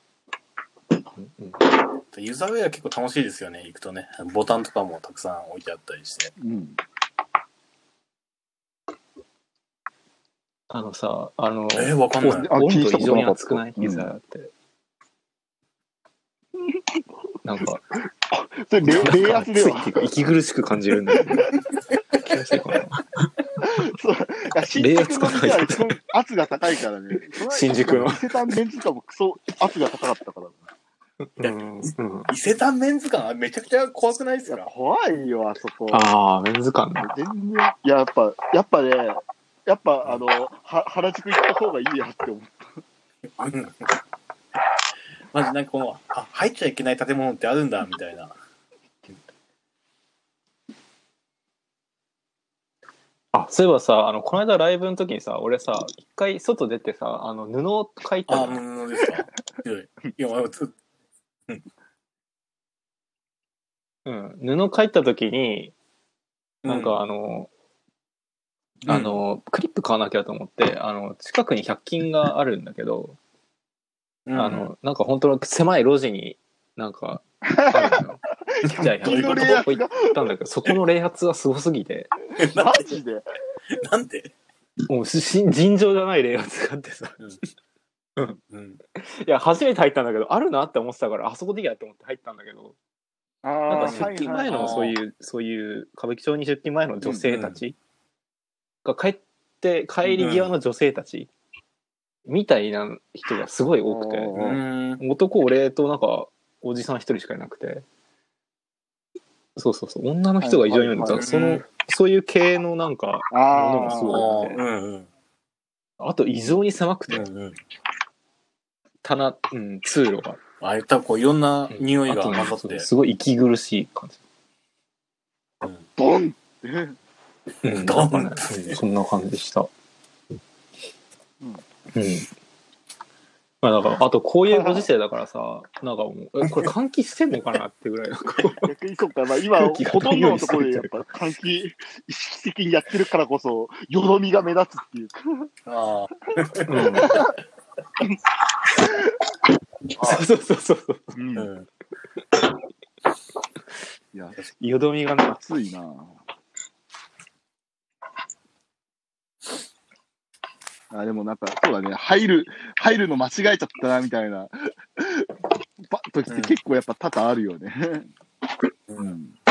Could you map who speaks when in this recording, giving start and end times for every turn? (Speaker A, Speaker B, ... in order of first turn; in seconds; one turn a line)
Speaker A: 1.1-1.6
Speaker B: 2.1-6.3
Speaker C: 6.4-6.8
Speaker A: 10.7-14.5
Speaker B: 11.7-12.5
Speaker C: 12.3-14.1
Speaker A: 17.4-17.8
Speaker C: 18.3-20.1
Speaker A: 18.8-21.5
Speaker C: 21.1-21.4
Speaker A: 22.2-23.0
Speaker C: 23.6-30.6
Speaker A: 24.8-26.0
Speaker A: 27.3-28.3
Speaker A: 31.4-32.3
Speaker B: 31.4-34.7
Speaker C: 34.5-36.1
Speaker A: 35.9-37.1
Speaker C: 37.0-42.8
Speaker B: 43.4-44.0
Speaker B: 45.3-48.3
Speaker A: 53.3-58.6
Speaker B: 58.3-60.7
Speaker A: 64.0-65.7
Speaker B: 66.6-67.0
Speaker A: 66.7-67.5
Speaker B: 68.9-69.2
Speaker A: 68.9-73.2
Speaker B: 74.2-74.7
Speaker A: 74.3-82.1
Speaker C: 77.5-78.0
Speaker C: 78.6-80.2
Speaker B: 79.0-79.6
Speaker B: 82.4-83.0
Speaker C: 82.5-83.2
Speaker B: 83.7-84.3
Speaker A: 84.9-87.2
Speaker B: 88.5-88.8
Speaker A: 89.0-92.8
Speaker C: 93.4-94.9
Speaker A: 93.7-97.7
Speaker B: 93.8-95.0
Speaker B: 97.2-97.6
Speaker A: 98.8-101.3
Speaker B: 100.0-100.5
Speaker A: 102.2-104.4
Speaker C: 103.8-104.6
Speaker B: 104.3-105.0
Speaker A: 105.0-107.8
Speaker A: 109.5-114.6
Speaker C: 110.4-111.3
Speaker B: 111.1-111.6
Speaker C: 113.3-114.3
Speaker B: 113.9-115.1
Speaker A: 116.0-117.3
Speaker B: 117.1-117.6
Speaker A: 119.0-120.4
Speaker B: 120.6-122.9
Speaker A: 121.7-124.2
Speaker C: 126.0-127.0
Speaker B: 127.6-128.8
Speaker A: 127.6-129.7
Speaker A: 131.9-132.3
Speaker A: 133.6-138.7
Speaker C: 134.5-134.9
Speaker C: 138.6-145.5
Speaker A: 139.6-141.0
Speaker B: 145.7-147.3
Speaker A: 146.7-147.2
Speaker C: 147.0-147.3
Speaker A: 150.0-151.2
Speaker C: 151.1-151.5
Speaker B: 151.3-151.7
Speaker A: 154.6-155.4
Speaker C: 155.3-156.1
Speaker C: 160.9-165.3
Speaker C: 165.8-168.1
Speaker B: 166.3-166.6
Speaker B: 168.9-169.2
Speaker C: 169.0-169.3